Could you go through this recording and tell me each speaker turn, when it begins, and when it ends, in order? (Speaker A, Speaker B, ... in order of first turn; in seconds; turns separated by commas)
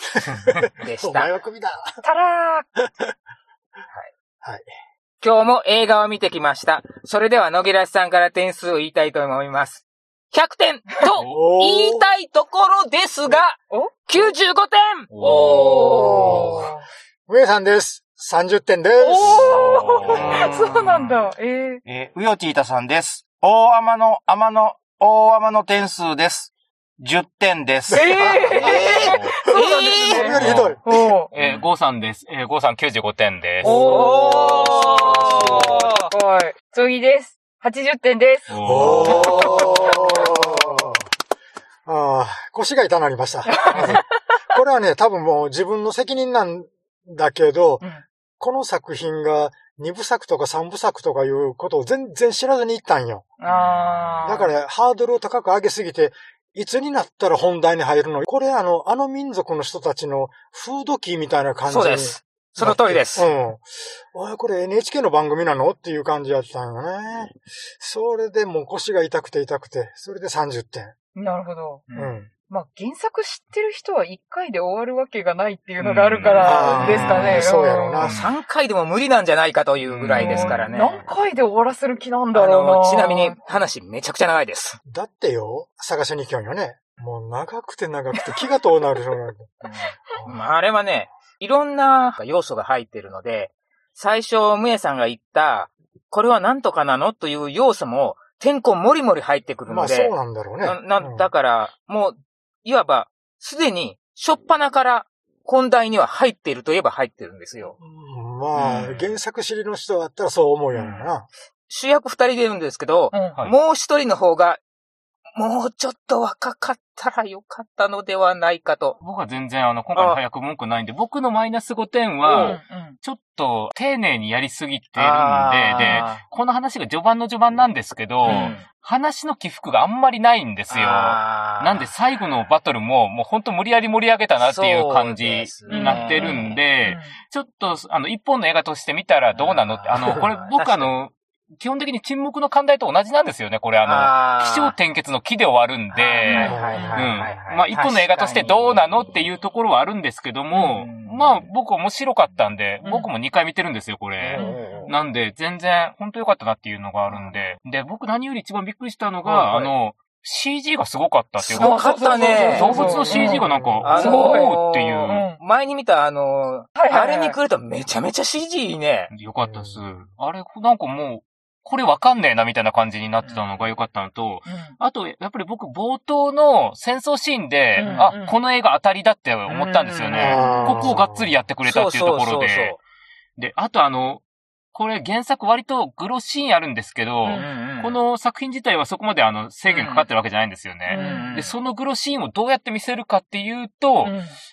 Speaker A: 0.5-2.0, Speaker B: 0.7-1.3, Speaker C: 2.0-2.7, Speaker A: 2.8-3.1, Speaker B: 5.2-16.6, Speaker A: 11.2-12.0, Speaker C: 13.7-14.3, Speaker D: 15.1-15.7, Speaker C: 15.2-16.8, Speaker A: 15.8-16.7, Speaker A: 17.3-20.2, Speaker C: 19.0-21.8, Speaker D: 19.6-21.0, Speaker E: 20.0-21.1, Speaker E: 21.8-28.8, Speaker C: 27.9-31.3, Speaker B: 28.4-30.6, Speaker A: 29.9-30.8, Speaker D: 30.3-30.8, Speaker D: 31.3-34.0, Speaker B: 31.4-31.6, Speaker C: 33.6-40.4, Speaker A: 33.6-35.8, Speaker B: 33.6-36.1, Speaker D: 38.5-39.6, Speaker A: 38.6-41.0, Speaker B: 39.1-39.8, Speaker A: 41.9-47.8, Speaker C: 43.5-43.9, Speaker A: 48.4-53.3, Speaker C: 53.4-54.5, Speaker B: 53.5-54.4, Speaker A: 54.2-70.9, Speaker B: 61.6-63.3, Speaker C: 71.1-71.9, Speaker B: 71.9-72.2, Speaker A: 71.9-72.3, Speaker C: 72.4-78.0, Speaker D: 75.8-77.1, Speaker A: 76.4-78.2, Speaker D: 78.0-78.3, Speaker B: 78.0-81.1, Speaker D: 79.9-80.6, Speaker C: 80.1-83.4, Speaker B: 82.3-84.8, Speaker A: 84.8-89.5, Speaker B: 89.6-107.8, Speaker A: 99.7-101.3, Speaker A: 107.8-111.3, Speaker B: 108.5-109.0, Speaker B: 110.7-111.1, Speaker B: 111.7-114.6, Speaker C: 113.1-113.4, Speaker B: 115.3-119.0, Speaker D: 119.0-165.2, Speaker B: 119.9-120.2, Speaker B: 122.2-122.6, Speaker C: 122.3-123.0, Speaker B: 125.0-126.2, Speaker B: 128.2-128.6, Speaker C: 128.2-128.6, Speaker B: 130.7-131.9, Speaker B: 134.4-136.6, Speaker C: 135.7-137.1, Speaker B: 139.3-140.9, Speaker B: 143.8-144.7, Speaker B: 145.9-149.3, Speaker C: 146.2-147.1, Speaker A: 146.5-146.9, Speaker B: 150.5-151.5, Speaker B: 154.2-154.9, Speaker C: 154.3-154.9, Speaker B: 157.1-157.3, Speaker B: 159.2-159.7, Speaker B: 161.4-169.1, Speaker C: 161.5-165.4, Speaker A: 163.4-163.9, Speaker C: 166.8-167.4, Speaker D: 169.1-182.8, Speaker A: 169.4-169.8, Speaker B: 173.2-173.5, Speaker C: 174.5-174.7, Speaker C: 177.8-178.3, Speaker B: 177.8-178.1, Speaker B: 179.5-180.9, Speaker A: 180.1-181.2, Speaker B: 181.6-182.8, Speaker D: 183.4-184.2, Speaker D: 184.7-194.1, Speaker B: 187.2-188.0, Speaker B: 189.7-190.1, Speaker C: 190.9-191.4, Speaker B: 190.9-191.5, Speaker C: 194.0-194.3